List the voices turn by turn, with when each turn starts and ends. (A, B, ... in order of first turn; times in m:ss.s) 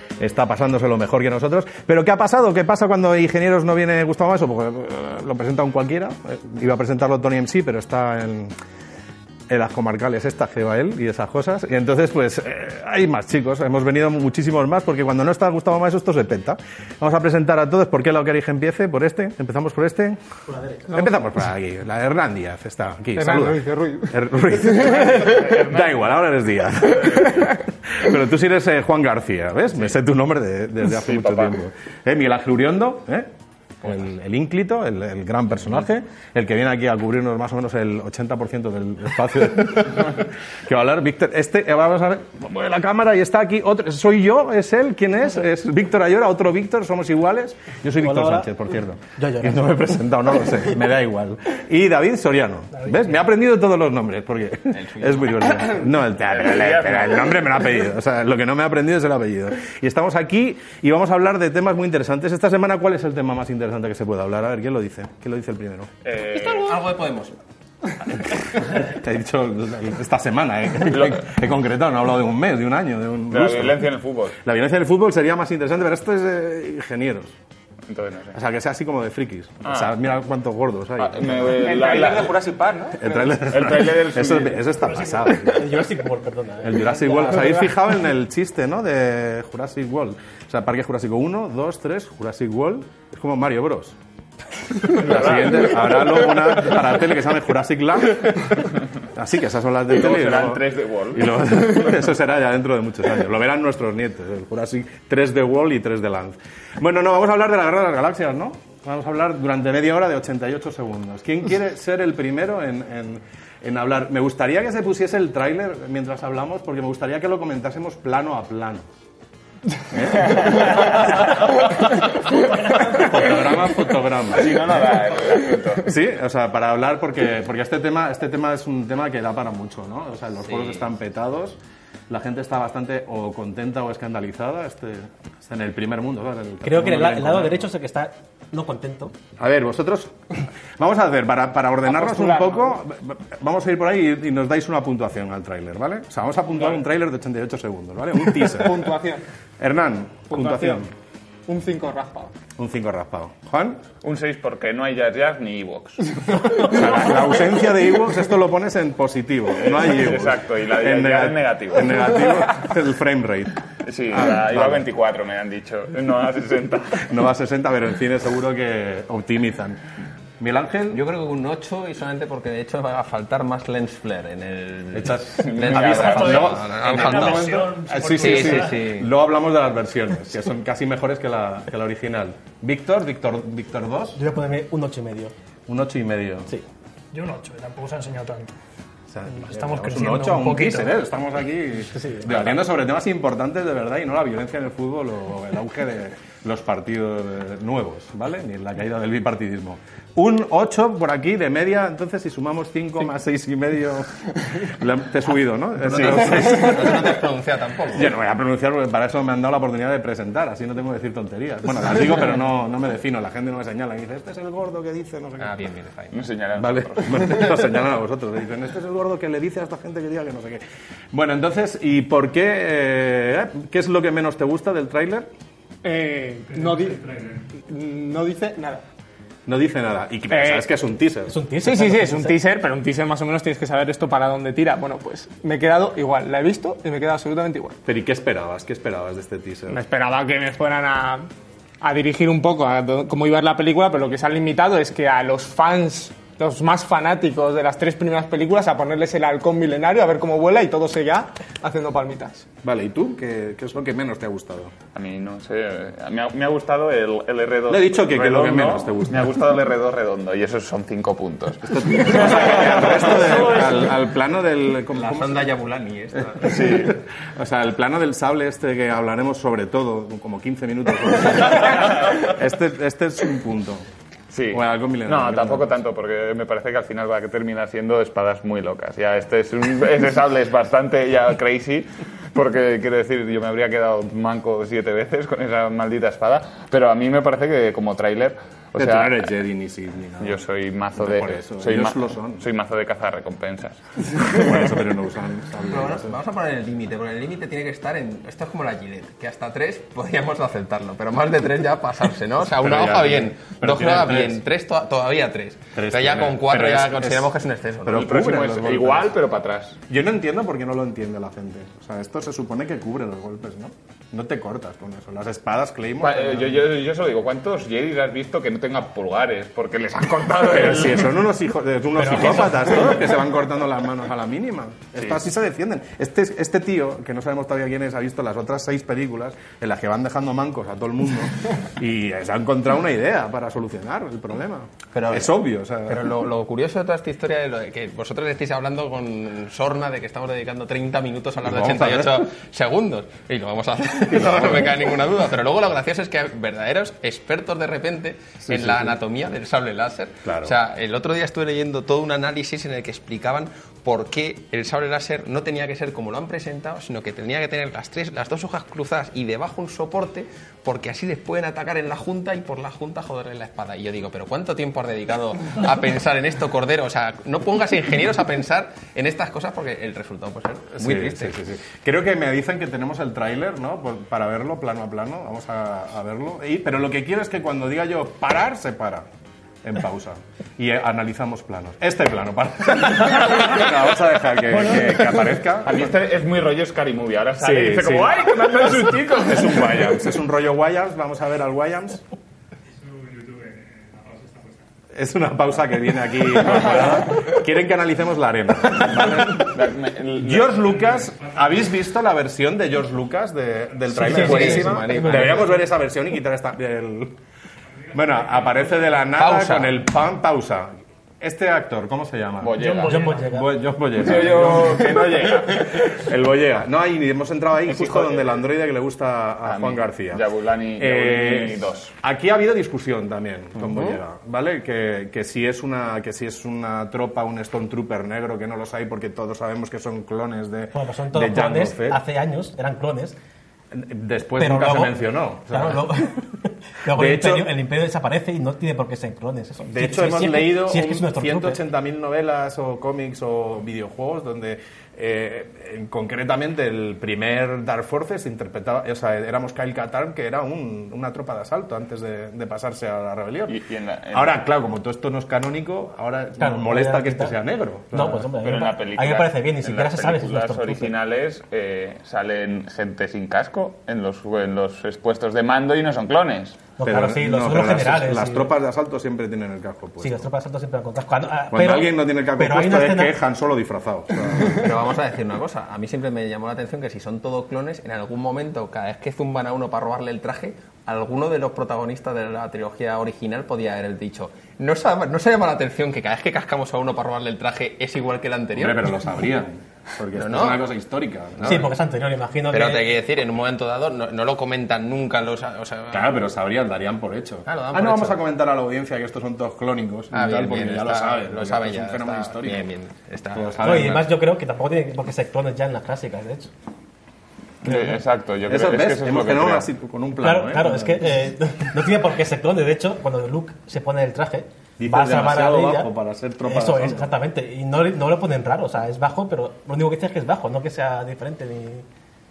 0:00.2-0:08.5 A
0:09.5-0:20.2 A
0:20.9-0:33.3 A
0:23.1-0:24.1 B
0:24.8-0:25.9 C
0:31.0-0:31.5 C
0:33.8-1:05.9 A
0:48.0-0:48.5 D
0:49.2-0:49.6 D
0:54.7-0:55.8 E
0:56.2-0:57.4 C
1:06.0-1:06.8 C
1:06.2-1:07.4 E
1:08.1-1:17.3 A
1:10.8-1:11.3 C
1:13.3-1:14.4 C
1:17.9-1:18.4 C
1:18.3-1:22.1 A
1:19.6-1:19.9 C
1:21.0-1:22.4 C
1:21.6-1:23.3 B
1:23.0-1:25.8 A
1:23.4-1:24.7 C
1:24.9-1:25.2 F
1:25.5-1:27.7 D
1:26.6-1:34.0 A
1:34.8-1:58.8 A
1:34.8-1:36.4 C
1:39.9-1:41.7 C
1:59.9-2:02.0 A
2:00.1-2:01.7 C
2:02.8-2:03.1 C
2:02.8-2:04.8 A
2:04.3-2:05.9 C
2:05.8-2:11.6 A
2:12.1-2:17.6 A
2:16.6-2:19.1 D
2:19.4-2:20.1 A
2:20.8-2:28.9 A
2:21.8-2:22.7 B
2:28.4-2:29.2 B
2:29.6-2:30.9 A
2:30.3-2:30.8 B
2:31.5-2:32.3 B
2:32.6-2:33.8 A
2:34.0-2:36.8 C
2:36.4-2:43.5 A
2:39.6-2:42.3 C
2:43.8-2:47.1 C
2:44.1-2:44.8 A
2:47.0-2:49.8 A
2:50.4-2:51.0 A
2:50.9-2:59.1 E
2:54.9-2:57.4 A
2:55.4-2:57.5 C
2:55.9-2:58.8 F
2:57.9-3:04.2 A
3:04.1-3:05.3 D
3:05.7-3:06.5 A
3:07.1-3:08.5 F
3:09.1-3:27.2 A
3:09.3-3:11.0 F
3:11.9-3:12.3 D
3:25.8-3:28.1 E
3:27.9-3:35.6 A
3:35.4-3:36.1 E
3:36.1-3:37.4 C
3:36.6-3:45.3 A
3:45.8-3:48.8 B
3:49.4-3:51.3 A
3:50.3-3:50.6 B
3:51.3-3:52.3 D
3:51.6-3:57.8 B
3:57.8-3:59.8 A
3:59.7-4:01.3 B
4:01.8-4:12.4 B
4:12.6-4:14.7 A
4:14.9-4:23.7 C
4:17.7-4:19.3 A
4:21.6-4:25.5 A
4:24.9-4:26.7 E
4:26.2-4:33.8 A
4:26.4-4:26.9 C
4:34.3-4:49.3 C
4:34.5-4:35.8 A
4:48.8-4:50.4 A
4:50.2-4:54.6 C
4:50.9-4:52.4 A
4:54.2-4:56.2 A
4:55.7-5:08.0 E
5:02.4-5:04.4 A
5:05.7-5:07.3 A
5:07.8-5:09.2 A
5:07.9-5:09.8 C
5:09.9-5:16.7 A
5:16.0-5:21.1 C
5:20.4-5:36.1 A
5:22.0-5:22.8 D
5:34.9-6:11.3 E
5:41.4-5:42.3 A
5:44.1-5:44.9 A
5:48.4-5:49.0 A
5:50.2-5:50.6 A
6:10.8-6:19.0 A
6:19.6-6:25.9 A
6:25.6-6:30.0 C
6:27.4-6:32.0 A
6:34.9-6:39.6 A
6:36.6-6:36.8 C
6:38.8-6:40.7 C
6:40.2-6:47.2 A
6:43.9-6:45.5 D
6:44.0-6:45.5 E
6:47.9-7:00.2 A
6:49.1-6:49.7 E
6:52.4-6:53.1 C
6:52.6-6:53.2 F
6:52.8-6:53.5 D
6:54.0-6:56.0 C
6:57.7-6:58.4 C
6:59.4-7:01.9 C
7:00.8-7:12.0 A
7:10.7-7:13.2 D
7:13.7-7:16.0 A
7:14.4-7:15.0 D
7:15.5-7:16.2 D
7:16.8-7:21.6 D
7:16.9-7:17.5 A
7:19.7-7:33.6 A
7:33.5-7:34.4 C
7:34.1-7:38.3 A
7:36.4-7:37.4 D
7:37.9-7:40.9 D
7:38.4-7:46.6 C
7:46.8-7:48.5 D
7:46.8-7:50.2 A
7:50.0-7:53.1 D
7:51.5-7:54.7 A
7:54.4-8:08.9 E
8:08.5-8:11.7 A
8:10.1-8:10.6 E
8:11.4-8:12.9 D
8:12.5-8:16.2 E
8:15.9-8:22.7 A
8:17.4-8:18.2 E
8:20.1-8:24.0 E
8:23.3-8:24.1 A
8:23.6-8:26.5 D
8:27.6-8:29.7 C
8:28.5-8:31.2 A
8:30.2-8:35.9 D
8:34.8-8:37.1 A
8:36.4-8:41.8 D